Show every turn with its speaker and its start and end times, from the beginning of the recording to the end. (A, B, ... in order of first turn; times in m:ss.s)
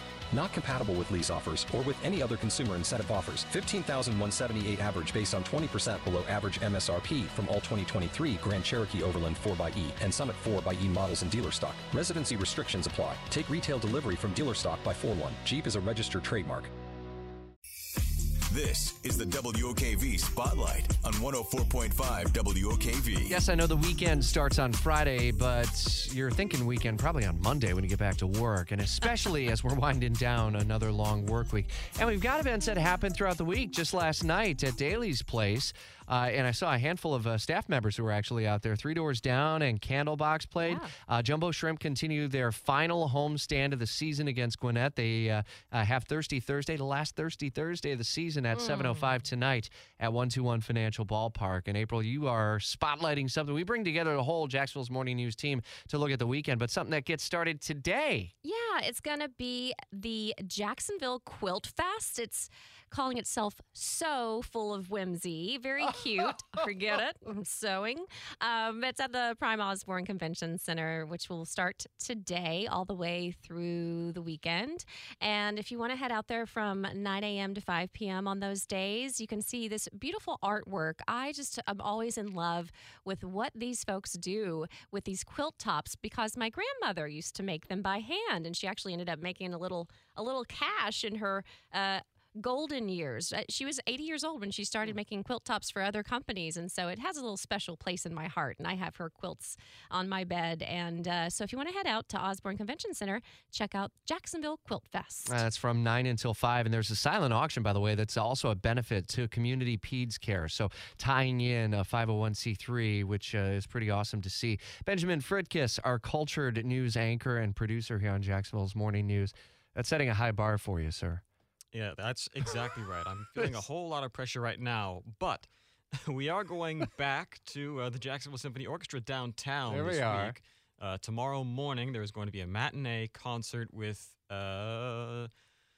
0:00.3-0:16.7 A
0:18.5-0:23.4 B
0:23.3-0:58.3 C
0:40.6-0:40.9 D
0:48.6-0:49.0 D
0:58.4-1:45.4 D
1:45.2-2:01.2 C
2:01.7-2:05.5 E
2:06.0-2:15.3 E
2:09.7-2:10.4 C